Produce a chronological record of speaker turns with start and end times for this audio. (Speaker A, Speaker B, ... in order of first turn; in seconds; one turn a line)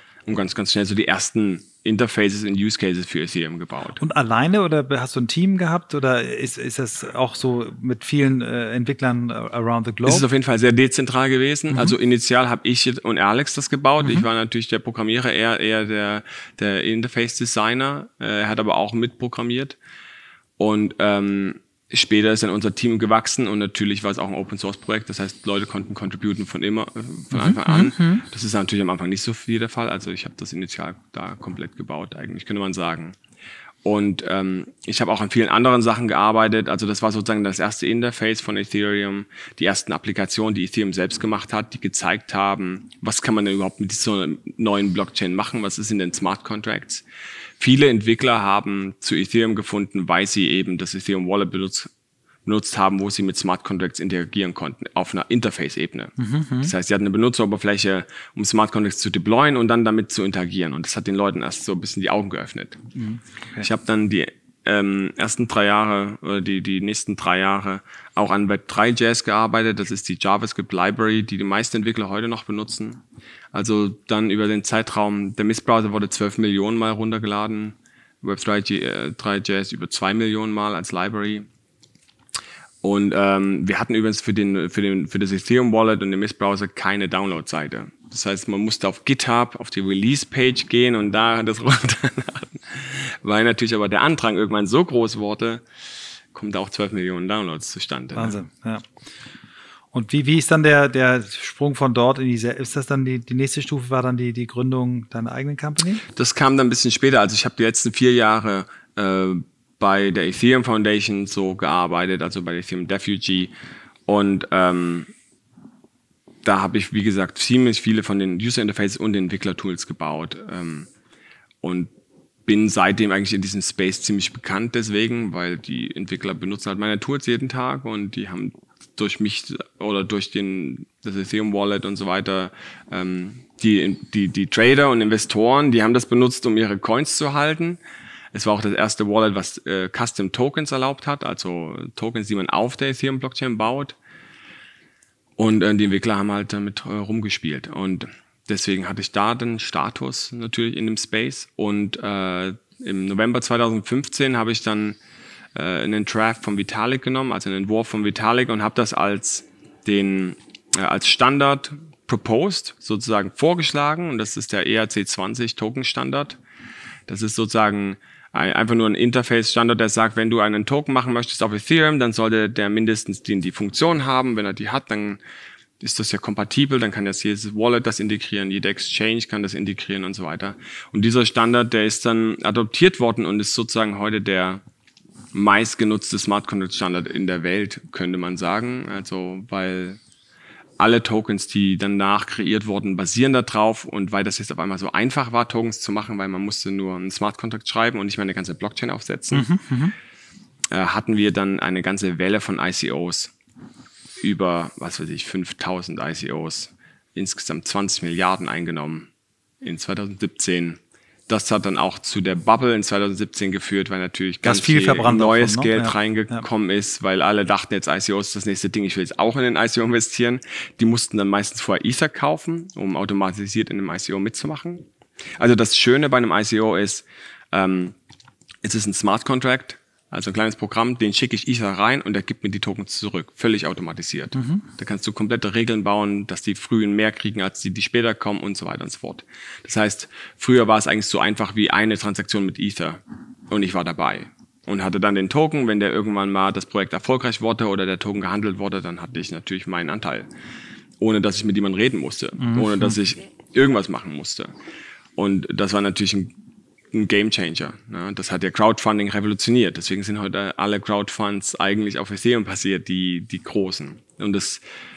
Speaker A: 0.3-4.0
Speaker B: 4.0-10.2
Speaker A: 10.0-19.8
Speaker A: 20.6-33.1
Speaker B: 27.3-28.2
Speaker A: 33.8-47.0
Speaker A: 47.6-51.9
Speaker A: 52.4-62.8
Speaker B: 56.2-56.7
Speaker B: 63.0-63.6
Speaker A: 63.6-73.0
Speaker A: 73.5-81.5
Speaker A: 82.8-95.6
Speaker A: 96.3-98.3
Speaker B: 98.1-98.8
Speaker B: 99.9-106.0
Speaker A: 106.1-113.5
Speaker A: 114.1-115.1
Speaker A: 116.4-120.9
Speaker A: 121.6-121.9
Speaker A: 122.5-137.8
Speaker A: 138.3-143.9
Speaker A: 145.4-155.0
Speaker A: 155.6-166.4
Speaker A: 167.1-175.2
Speaker A: 175.8-184.6
Speaker A: 185.3-190.0
Speaker A: 190.8-199.5
Speaker B: 199.3-199.9
Speaker A: 200.7-203.3
Speaker A: 204.2-209.1
Speaker A: 209.6-224.8
Speaker B: 214.4-216.4
Speaker A: 225.4-227.9
Speaker A: 228.6-250.3
Speaker B: 234.4-234.6
Speaker A: 251.0-254.5
Speaker B: 252.4-252.9
Speaker A: 255.2-256.3
Speaker A: 256.9-264.6